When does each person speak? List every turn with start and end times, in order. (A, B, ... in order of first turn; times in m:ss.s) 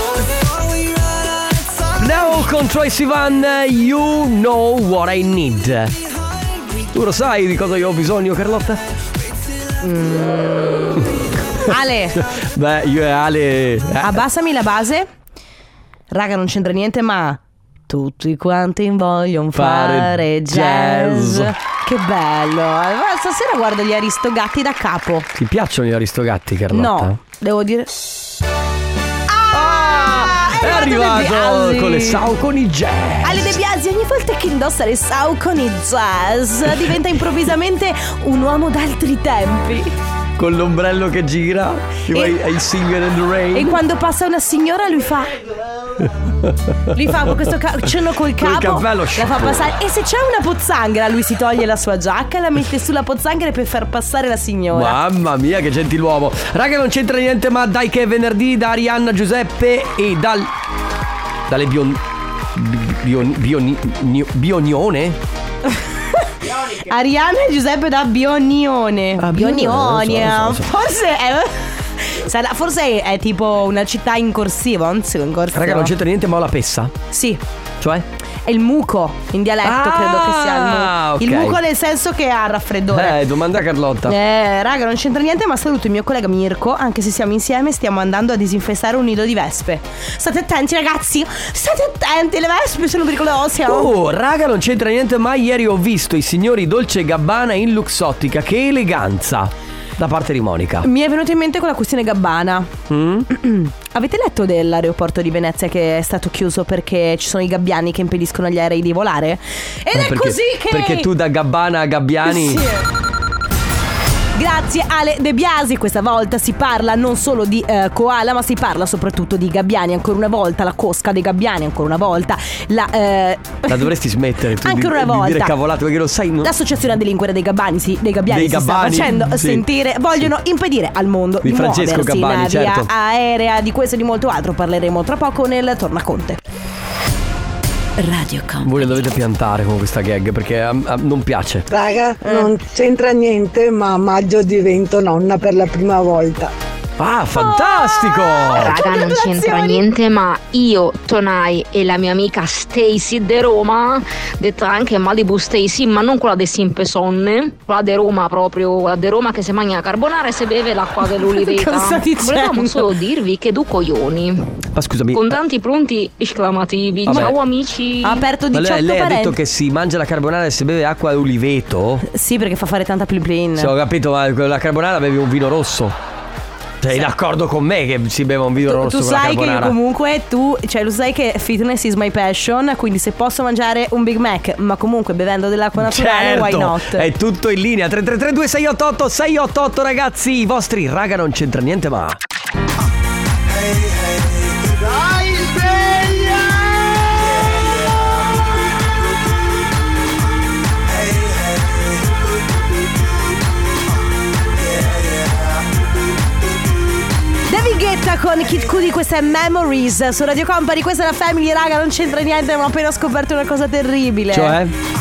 0:01.9-0:06.0 A
0:06.9-0:08.8 A
0:09.8-0:11.1 B
0:11.6-0:12.2 B
0:12.1-0:14.2 A
0:14.0-0:15.1 B
0:16.1-0:25.3 B
0:19.5-0:21.5 A
0:25.3-0:27.2 A
0:26.7-0:27.9 B
0:29.3-0:32.3 B
0:29.5-0:33.6 A
0:33.2-0:39.9 B
0:40.4-0:43.8 A
0:43.5-0:45.4 B
0:46.4-0:47.4 A
0:46.9-0:55.0 B
0:48.4-0:49.7 A
0:54.7-1:00.5 A
1:01.5-1:02.0 A
1:02.5-1:05.2 A
1:06.2-1:15.9 B
1:09.2-1:10.7 A
1:15.5-1:16.9 A
1:17.1-1:17.4 B
1:17.8-1:18.0 A
1:18.4-1:23.2 B
1:19.6-1:21.6 A
1:22.9-1:24.2 A
1:24.0-1:33.9 B
1:33.6-1:40.9 A
1:40.8-1:42.7 B
1:42.9-1:43.3 A
1:43.3-1:51.1 B
1:49.9-1:52.6 A
1:52.2-1:52.8 B
1:54.3-2:03.9 B
2:03.7-2:06.5 A
2:04.6-2:05.5 B
2:06.4-2:16.4 B
2:08.3-2:09.6 A
2:11.4-2:12.9 A
2:18.0-2:18.8 B
2:18.6-2:21.7 A
2:21.7-2:26.5 C
2:22.2-2:22.5 B
2:27.0-2:28.8 A
2:27.3-2:29.8 B
2:28.5-2:44.6 D
2:41.2-2:42.8 B
2:44.7-2:45.4 A
2:45.1-2:48.2 D
2:47.0-2:47.3 A
2:48.0-2:49.4 B
2:48.5-2:52.0 A
2:52.0-2:53.7 B
2:53.6-2:56.0 A
2:56.8-2:59.8 A
2:58.6-3:07.1 B
3:05.8-3:12.2 A
3:27.5-3:34.6 B
3:34.3-3:34.7 A